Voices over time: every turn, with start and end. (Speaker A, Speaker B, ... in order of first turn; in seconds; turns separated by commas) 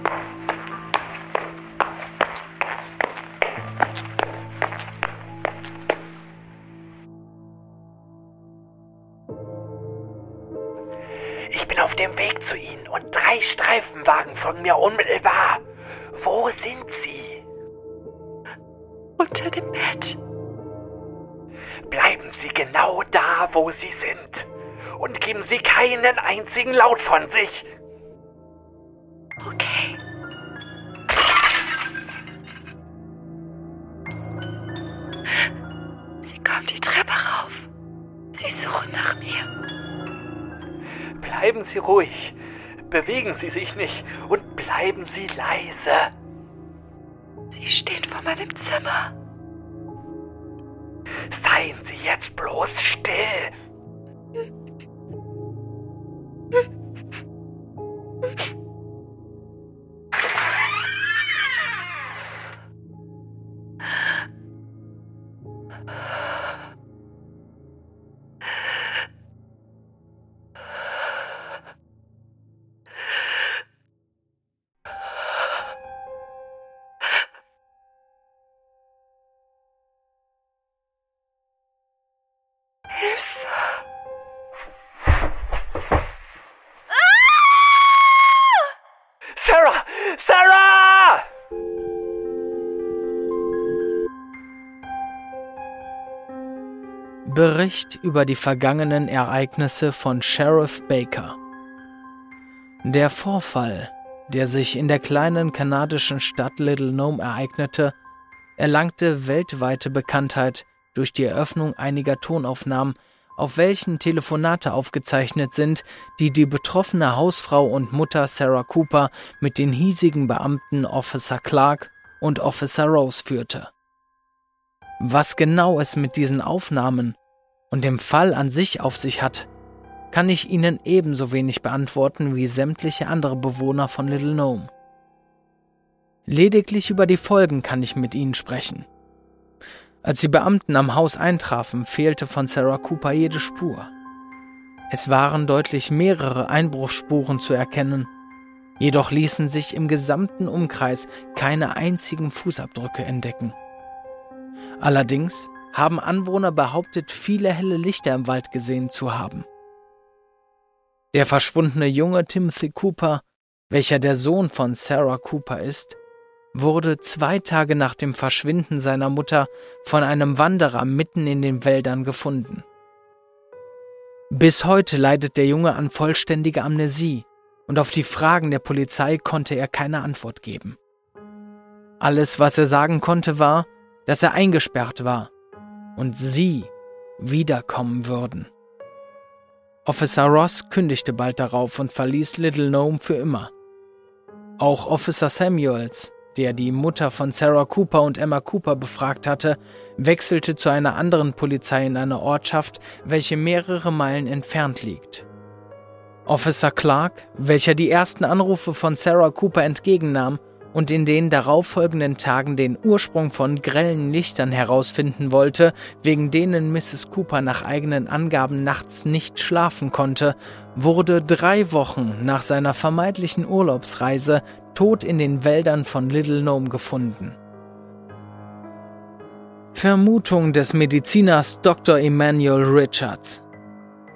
Speaker A: 11.4-17.4, Speaker B: 19.2-20.2, Speaker A: 21.9-27.7, Speaker B: 29.4-30.0, Speaker B: 36.2-37.7, Speaker B: 38.4-39.5, Speaker A: 41.2-42.4, Speaker A: 42.9-46.1, Speaker B: 47.5-49.1, Speaker A: 51.3-53.5, Speaker B: 82.9-83.8, Speaker A: 89.4-91.2, Speaker C: 97.2-101.4, Speaker C: 102.8-107.9, Speaker C: 108.6-123.7, Speaker C: 125.0-127.2, Speaker C: 127.7-129.5, Speaker C: 130.1-134.7, Speaker C: 136.3-138.9, Speaker C: 140.0-143.9, Speaker C: 144.9-148.1, Speaker C: 148.8-153.6, Speaker C: 154.8-159.5, Speaker C: 161.1-166.0, Speaker C: 166.5-172.6, Speaker C: 174.3-180.8, Speaker C: 182.0-185.3, Speaker C: 185.9-188.5, Speaker C: 189.8-193.5, Speaker C: 194.6-205.3, Speaker C: 206.3-227.4, Speaker C: 229.7-233.4